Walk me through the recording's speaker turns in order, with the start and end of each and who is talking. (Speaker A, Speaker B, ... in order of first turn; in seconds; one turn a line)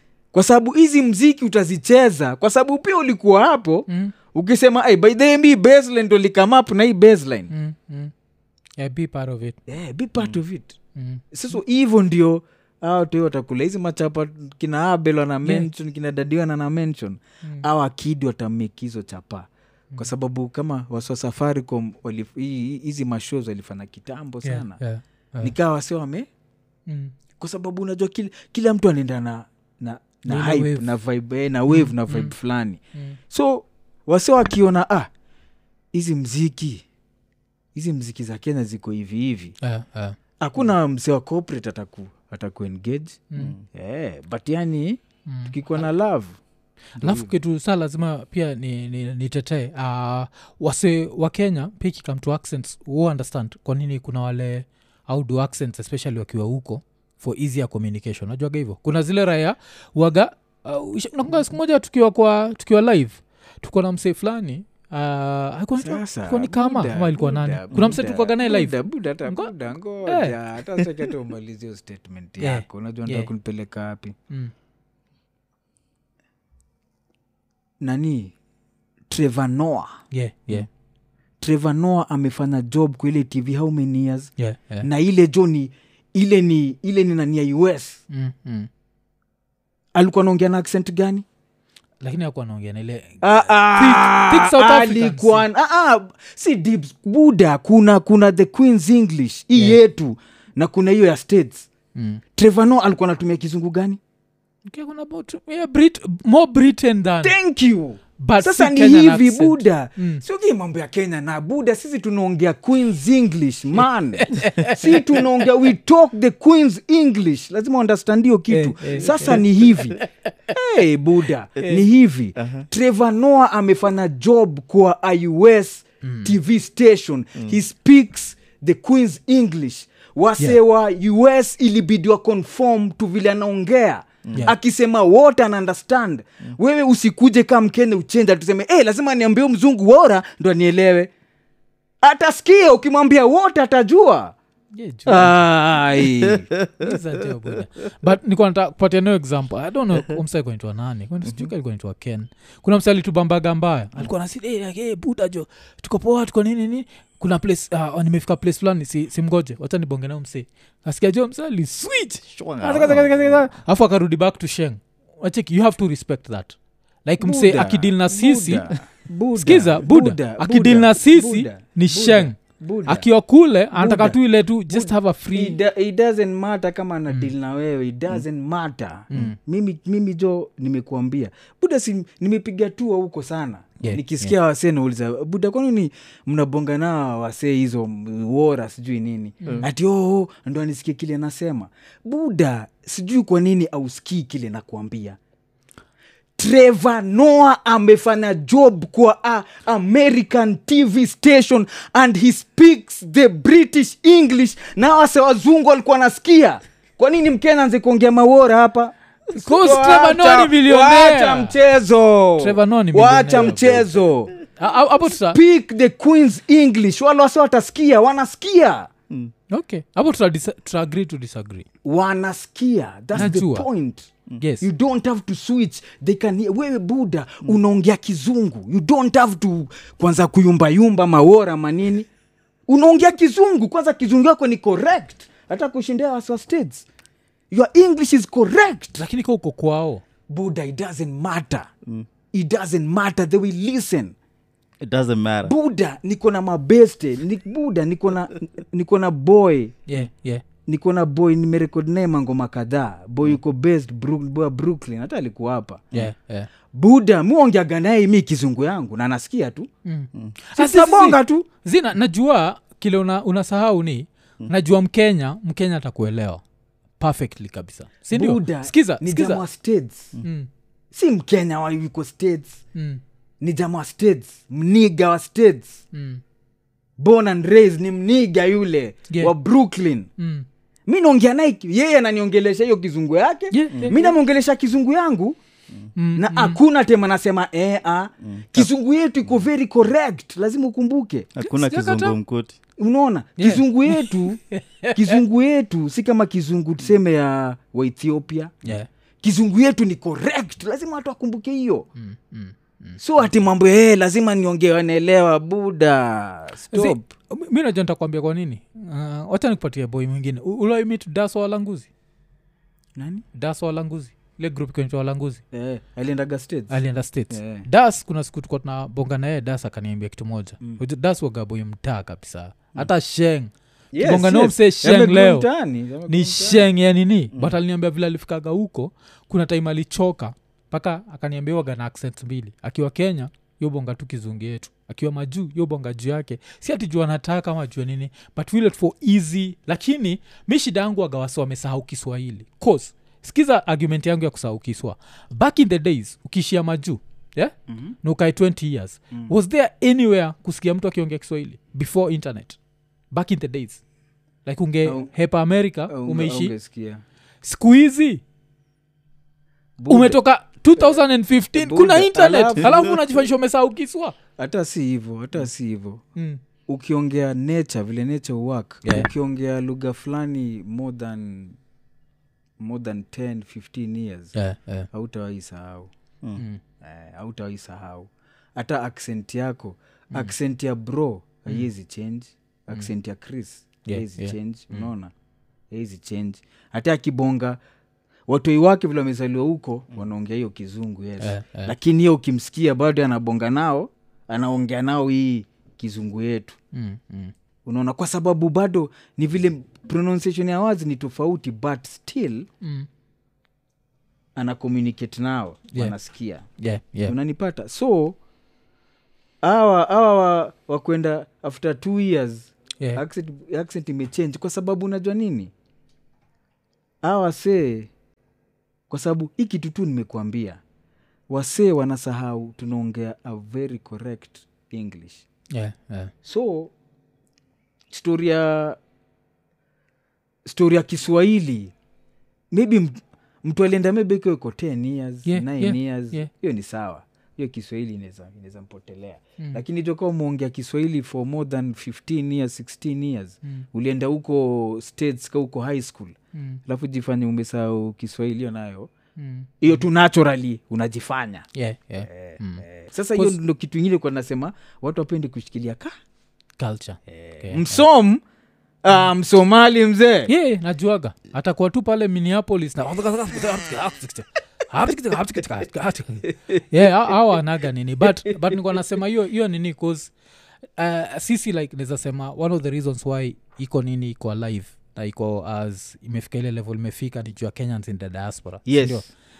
Speaker A: 0.3-7.5
Speaker B: 3.9-4.1
Speaker B: 7.5-8.1
Speaker B: 8.8-9.6
Speaker A: 9.7-10.8
Speaker B: 10.9-11.2
Speaker A: 11.3-24.8
Speaker B: 24.4-25.5
Speaker A: 25.4-26.3
Speaker B: 26.9-27.1
Speaker A: 27.4-35.1
Speaker B: 30.3-30.9
Speaker B: 31.7-32.3
Speaker A: 35.9-36.9
Speaker A: 37.8-39.6
Speaker B: 39.6-40.2
Speaker A: 40.4-43.2
Speaker B: 43.3-43.6
Speaker C: 43.4-43.6
Speaker A: 43.7-46.4
Speaker B: 45.3-45.5
Speaker A: 47.0-47.3
Speaker B: 47.0-70.4
Speaker A: 65.8-74.2
Speaker C: 67.7-68.0
Speaker B: 72.4-73.3
Speaker A: 77.8-78.3
Speaker A: 79.1-80.7
Speaker B: 80.1-80.7
Speaker A: 81.4-84.3
Speaker B: 84.4-84.9
Speaker A: 84.8-88.0
Speaker B: 88.1-88.7
Speaker A: 90.0-91.2
Speaker B: 92.0-95.5
Speaker A: 93.2-101.7
Speaker B: 102.0-102.2
Speaker A: 102.3-104.0
Speaker B: 104.7-107.4
Speaker A: 107.2-120.0
Speaker B: 108.2-110.2
Speaker B: 114.2-115.3
Speaker B: 118.5-120.1
Speaker A: 120.5-141.1
Speaker B: 126.0-126.3
Speaker C: 134.2-134.5
Speaker A: 142.0-144.3
Speaker B: 144.8-145.4
Speaker A: 145.1-146.5
Speaker C: 146.5-147.0
Speaker B: 146.7-168.8
Speaker C: 162.2-163.6
Speaker A: 167.2-173.1
Speaker B: 169.3-172.3
Speaker B: 172.9-175.6
Speaker A: 173.8-195.2
Speaker B: 179.1-179.4
Speaker B: 183.8-184.3
Speaker B: 189.4-189.7
Speaker A: 196.4-214.4
Speaker B: 209.3-211.6
Speaker B: 212.4-213.9
Speaker B: 214.6-215.4
Speaker A: 215.2-218.9
Speaker B: 219.5-221.7
Speaker A: 221.8-232.1
Speaker B: 223.2-223.7
Speaker B: 224.4-224.7
Speaker A: 232.7-236.9
Speaker A: 237.5-239.1
Speaker B: 239.0-240.0
Speaker A: 240.3-241.7
Speaker A: 242.3-244.2
Speaker C: 244.8-245.5
Speaker A: 245.4-249.8
Speaker B: 249.9-250.4
Speaker A: 250.7-255.9
Speaker B: 255.9-256.5
Speaker A: 256.7-259.7
Speaker B: 259.9-266.4
Speaker A: 260.5-261.5
Speaker B: 267.0-269.4
Speaker A: 268.1-270.1
Speaker B: 270.2-270.5
Speaker A: 270.9-272.6
Speaker B: 272.8-273.0
Speaker A: 273.4-275.8
Speaker B: 275.9-276.2
Speaker A: 277.0-280.1
Speaker B: 280.2-280.5
Speaker A: 280.9-285.4
Speaker B: 283.5-284.1
Speaker B: 286.0-286.6
Speaker A: 286.2-291.3
Speaker C: 288.2-288.7
Speaker C: 291.4-292.6
Speaker B: 291.4-292.2
Speaker A: 292.8-294.4
Speaker B: 293.4-295.2
Speaker A: 294.9-298.6
Speaker A: 299.2-301.9
Speaker B: 302.0-303.0
Speaker A: 303.0-307.1
Speaker B: 306.7-311.9
Speaker A: 313.0-313.2
Speaker B: 313.3-315.4
Speaker A: 315.5-317.7
Speaker B: 316.7-323.5
Speaker A: 323.9-326.6
Speaker B: 324.0-325.5
Speaker B: 326.1-352.6
Speaker A: 347.7-348.0
Speaker B: 353.1-353.8
Speaker B: 354.4-356.5
Speaker A: 354.8-355.1
Speaker A: 355.9-357.0
Speaker B: 357.4-358.2
Speaker A: 359.8-360.2
Speaker B: 359.9-364.2
Speaker A: 360.8-361.0
Speaker A: 361.6-362.9
Speaker A: 364.4-366.0
Speaker B: 366.2-366.4
Speaker A: 366.7-371.6
Speaker A: 372.6-374.4
Speaker B: 374.4-374.9
Speaker A: 374.9-375.9
Speaker A: 376.8-385.1
Speaker B: 383.9-384.4
Speaker A: 385.7-387.6
Speaker A: 388.3-396.6
Speaker B: 391.2-391.7
Speaker B: 396.7-397.3
Speaker A: 397.6-402.5
Speaker B: 402.6-402.9
Speaker A: 404.4-406.5
Speaker B: 406.6-407.1
Speaker A: 407.1-408.2
Speaker A: 409.4-415.5
Speaker A: 417.0-417.9
Speaker A: 418.9-420.6
Speaker A: 421.3-425.3
Speaker B: 425.5-426.1
Speaker A: 426.2-426.7
Speaker A: 427.9-428.8
Speaker A: 430.5-431.7
Speaker A: 432.5-448.9
Speaker B: 435.3-436.3
Speaker B: 446.3-446.6
Speaker B: 449.2-449.8
Speaker A: 449.6-451.5
Speaker B: 451.6-453.4
Speaker A: 452.0-455.9
Speaker B: 456.6-457.9
Speaker A: 457.1-458.2
Speaker A: 458.8-460.3
Speaker B: 460.3-470.1
Speaker B: 470.8-479.1
Speaker A: 478.7-479.1